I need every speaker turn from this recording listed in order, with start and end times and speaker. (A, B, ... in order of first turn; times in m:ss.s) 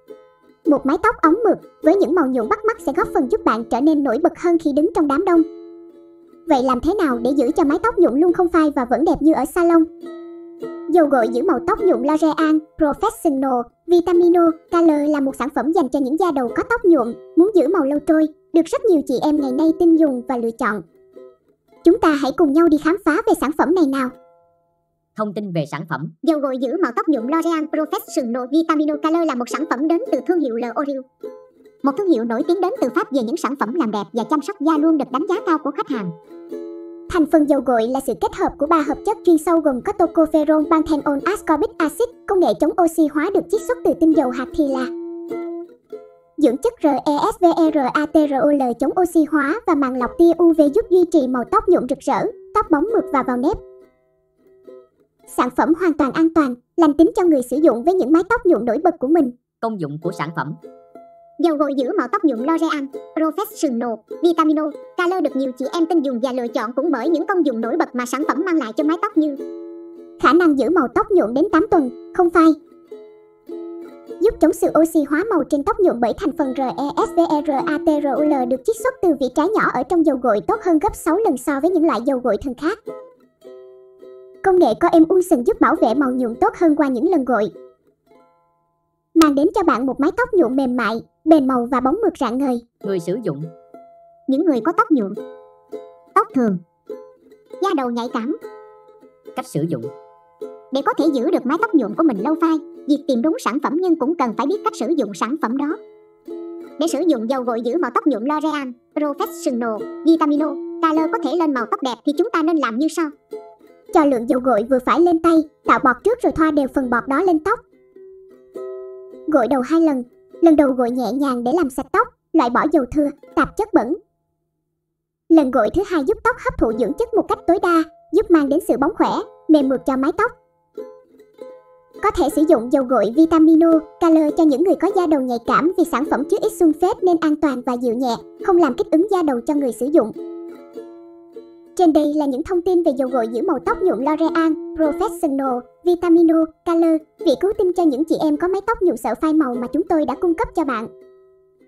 0:00.6-0:05.4 A
0:06.5-0:09.9 A
0:10.9-0:20.8 A
0:21.8-0:24.1 A
0:25.2-0:26.1 B
0:26.2-0:31.0 C
0:31.8-0:36.1 C
0:37.1-0:44.9 A
0:46.4-0:53.6 A
0:55.3-0:59.3 A
0:59.6-1:00.6 B
1:01.4-1:09.4 C
1:10.2-1:12.6 A
1:14.2-1:22.8 A
1:24.4-1:27.5 A
1:29.2-1:32.6 A
1:32.8-1:33.5 B
1:34.3-1:35.2 C
1:36.1-1:36.6 C
1:37.6-1:38.4 C
1:39.3-1:39.9 B
1:40.7-1:45.8 C
1:46.8-1:53.1 C
1:53.9-1:57.6 A
1:59.3-2:04.0 A
2:05.3-2:10.3 A
2:12.0-2:20.1 A
2:21.8-2:30.9 A